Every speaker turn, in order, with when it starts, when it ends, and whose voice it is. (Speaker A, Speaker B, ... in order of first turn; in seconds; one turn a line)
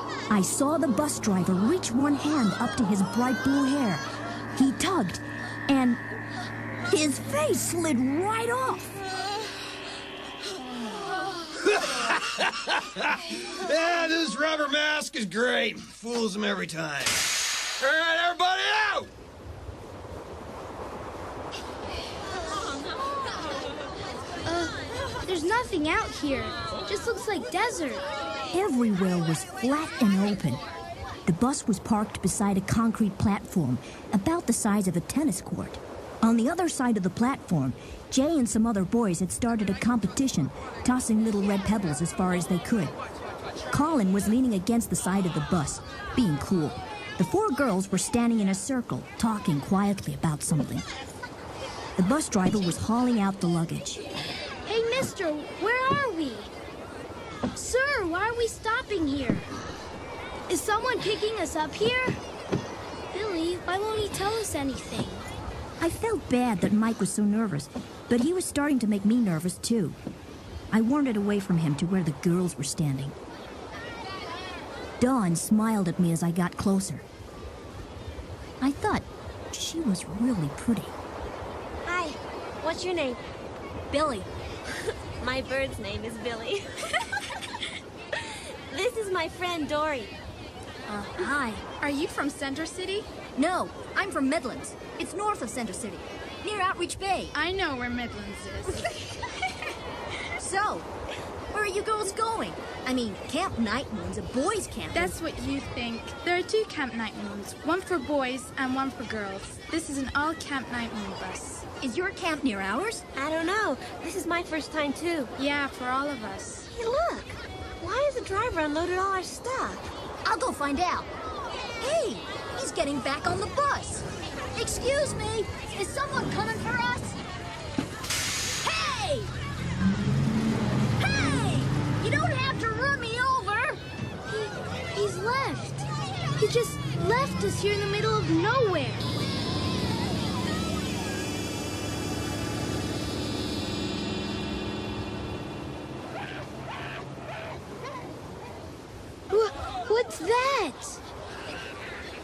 Speaker A: 0.3-4.0
Speaker A: 4.5-6.0
Speaker A: 6.9-9.0
Speaker B: 11.7-17.2
Speaker B: 17.8-19.1
Speaker C: 24.4-28.0
Speaker A: 28.5-30.6
Speaker A: 31.2-42.9
Speaker A: 43.7-50.9
Speaker A: 52.0-54.0
Speaker C: 54.6-56.5
Speaker C: 57.5-59.5
Speaker C: 60.5-62.2
Speaker C: 63.1-65.3
Speaker A: 65.8-70.0
Speaker A: 70.7-73.2
Speaker A: 75.0-77.0
Speaker A: 78.6-81.0
Speaker D: 81.8-83.2
Speaker A: 83.9-84.3
Speaker D: 85.2-87.3
Speaker D: 88.7-90.1
Speaker A: 90.9-91.6
Speaker E: 91.8-93.1
Speaker A: 93.3-97.3
Speaker E: 97.3-98.9
Speaker A: 100.4-100.9
Speaker A: 101.5-105.1
Speaker E: 104.9-111.7
Speaker A: 111.8-113.0
Speaker D: 113.1-115.3
Speaker E: 115.4-116.7
Speaker D: 116.7-119.9
Speaker A: 120.2-121.1
Speaker A: 121.8-127.2
Speaker A: 128.6-129.3
Speaker A: 131.0-133.8
Speaker C: 134.3-135.9
Speaker C: 136.4-139.2
Speaker C: 149.3-151.0